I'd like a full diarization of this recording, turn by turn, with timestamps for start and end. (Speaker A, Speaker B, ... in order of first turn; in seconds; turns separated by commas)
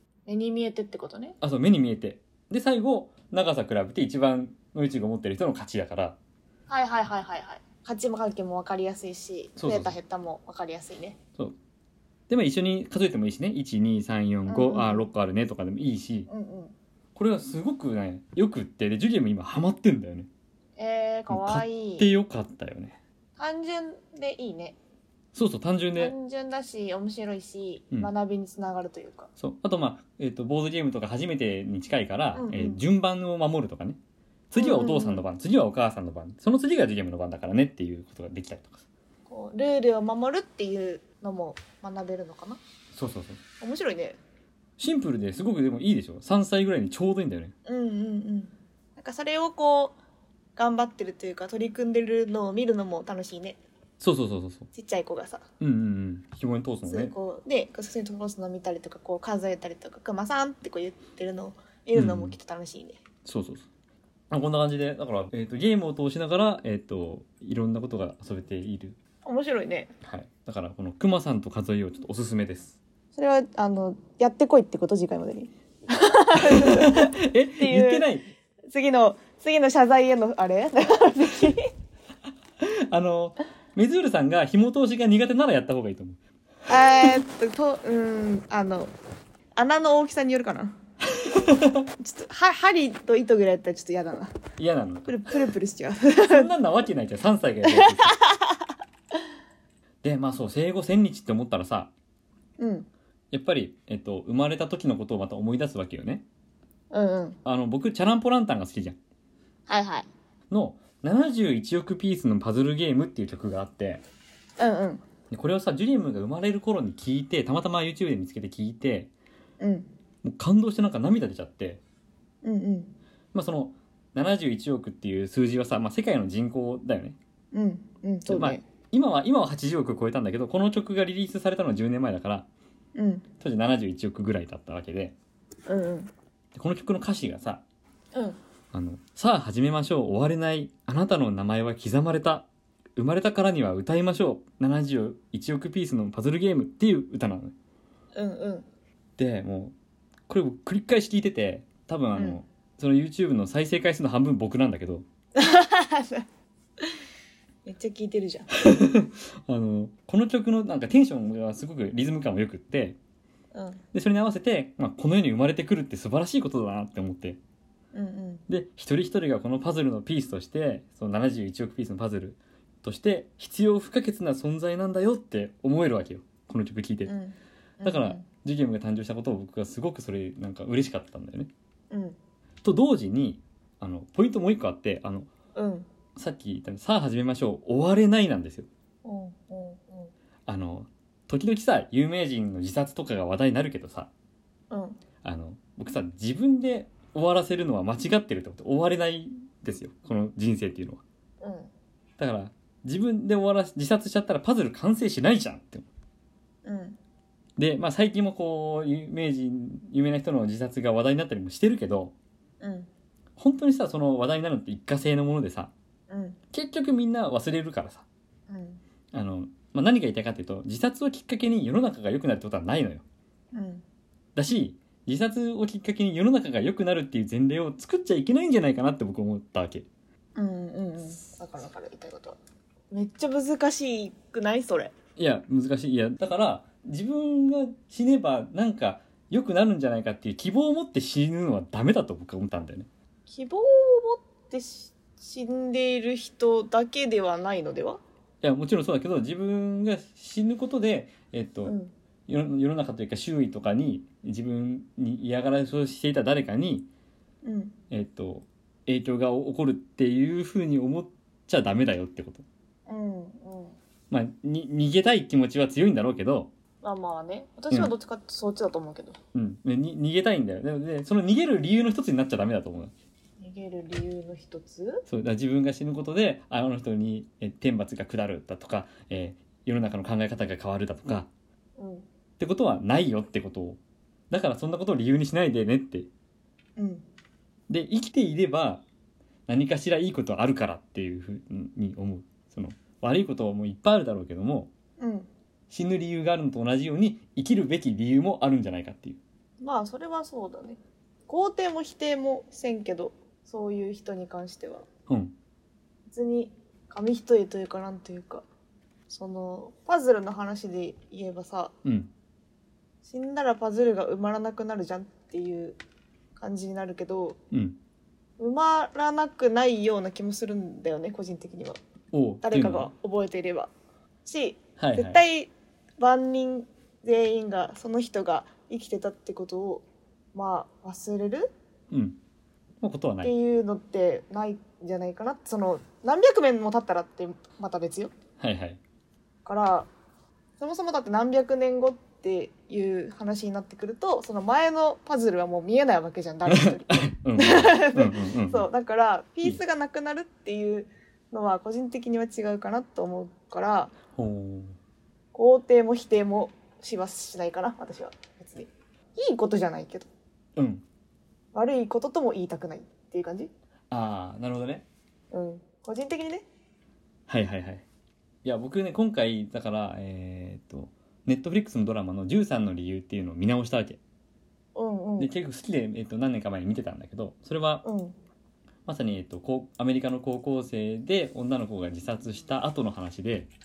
Speaker A: 0.3-1.4, Speaker B: 1.4-6.2, Speaker A: 6.7-11.2, Speaker B: 9.6-9.9, Speaker B: 12.3-16.3, Speaker A: 14.5-15.1, Speaker A: 16.3-16.7, Speaker B: 17.1-20.3, Speaker A: 20.8-22.1, Speaker B: 21.3-23.0, Speaker A: 23.4-24.8, Speaker B: 25.3-26.1, Speaker A: 26.0-29.3, Speaker B: 29.4-34.0, Speaker A: 32.3-32.8, Speaker B: 34.5-38.8, Speaker A: 34.5-35.2, Speaker A: 39.3-42.6, Speaker B: 42.9-43.4, Speaker A: 43.6-44.2, Speaker B: 44.8-47.5, Speaker A: 47.6-50.0, Speaker A: 50.5-53.6, Speaker B: 54.0-54.7, Speaker A: 54.7-55.4, Speaker B: 55.6-57.1, Speaker A: 56.9-63.0, Speaker B: 61.9-62.4, Speaker B: 63.2-63.7, Speaker B: 64.3-69.0, Speaker A: 69.2-69.9, Speaker B: 70.0-72.8, Speaker A: 73.1-78.0, Speaker B: 76.3-78.3, Speaker A: 78.7-81.7, Speaker B: 82.6-86.2, Speaker A: 86.7-88.9, Speaker A: 89.5-90.8, Speaker B: 91.2-91.8, Speaker A: 92.0-94.3, Speaker B: 94.6-95.2, Speaker A: 95.1-96.5, Speaker B: 96.2-98.2, Speaker A: 97.6-98.6, Speaker B: 100.0-101.9, Speaker A: 102.6-102.9, Speaker B: 103.3-106.2, Speaker A: 106.9-107.4, Speaker B: 107.4-109.0, Speaker A: 109.7-110.1, Speaker B: 110.5-114.0, Speaker A: 114.6-115.0, Speaker B: 115.3-119.1, Speaker A: 119.6-119.9, Speaker B: 120.2-121.8, Speaker A: 122.4-122.9, Speaker B: 123.3-127.2, Speaker A: 127.5-128.6, Speaker B: 128.3-132.5, Speaker A: 132.9-133.2, Speaker B: 133.4-135.1, Speaker A: 135.7-136.1, Speaker B: 136.5-137.6, Speaker B: 138.7-147.5, Speaker A: 148.1-148.7, Speaker B: 149.2-149.7, Speaker B: 150.3-155.0, Speaker A: 155.3-156.2, Speaker A: 157.7-158.5, Speaker B: 158.6-163.0, Speaker A: 163.5-163.8, Speaker B: 163.9-167.4, Speaker A: 167.9-168.4, Speaker B: 168.5-177.1, Speaker A: 177.1-178.2, Speaker B: 177.8-181.5, Speaker A: 181.9-182.2, Speaker B: 182.6-185.3, Speaker A: 185.6-185.9, Speaker B: 186.2-188.7, Speaker A: 189.0-190.1, Speaker B: 190.5-194.1, Speaker A: 194.7-195.0, Speaker B: 195.2-201.0, Speaker A: 201.4-201.7, Speaker B: 202.2-205.9, Speaker A: 206.6-207.0, Speaker B: 207.6-212.1, Speaker A: 212.6-212.9, Speaker B: 213.4-215.7, Speaker A: 216.1-216.4, Speaker B: 216.5-218.0, Speaker A: 218.5-218.8, Speaker B: 219.1-223.0, Speaker A: 223.5-223.8, Speaker B: 224.3-229.8, Speaker A: 230.3-232.4, Speaker A: 232.9-234.9, Speaker B: 235.2-242.9, Speaker A: 243.3-248.0, Speaker B: 248.4-251.8, Speaker A: 251.6-251.9, Speaker B: 252.3-256.9, Speaker A: 257.4-257.7, Speaker B: 257.9-262.4, Speaker A: 262.9-263.8, Speaker B: 264.1-266.5, Speaker A: 266.8-269.2, Speaker B: 269.3-272.9, Speaker A: 273.4-275.0, Speaker B: 275.1-281.3, Speaker A: 281.8-282.0, Speaker B: 282.4-283.8, Speaker B: 284.3-286.1, Speaker A: 286.8-287.0, Speaker B: 287.7-288.8, Speaker B: 289.5-294.7, Speaker A: 295.0-295.3, Speaker B: 295.7-299.2, Speaker A: 299.6-304.9, Speaker B: 305.1-305.3, Speaker A: 306.1-308.4, Speaker A: 309.1-311.7, Speaker B: 311.8-312.1, Speaker A: 313.0-315.8, Speaker A: 316.4-317.4, Speaker B: 317.5-317.8, Speaker A: 318.4-321.8, Speaker B: 322.1-322.9, Speaker A: 322.4-323.7, Speaker A: 324.2-331.5, Speaker B: 324.8-325.2, Speaker B: 331.9-332.2, Speaker B: 332.8-333.3, Speaker A: 333.2-338.1, Speaker B: 338.4-338.8, Speaker A: 339.4-339.9, Speaker A: 340.6-353.9, Speaker B: 346.5-348.7, Speaker B: 354.1-354.8, Speaker A: 355.3-360.1, Speaker B: 360.6-360.8, Speaker A: 361.5-363.5, Speaker B: 363.9-364.8, Speaker A: 365.3-366.4, Speaker B: 367.3-367.8, Speaker B: 368.4-374.0, Speaker A: 374.7-375.3, Speaker B: 375.2-377.8, Speaker A: 377.8-378.1, Speaker B: 378.9-383.5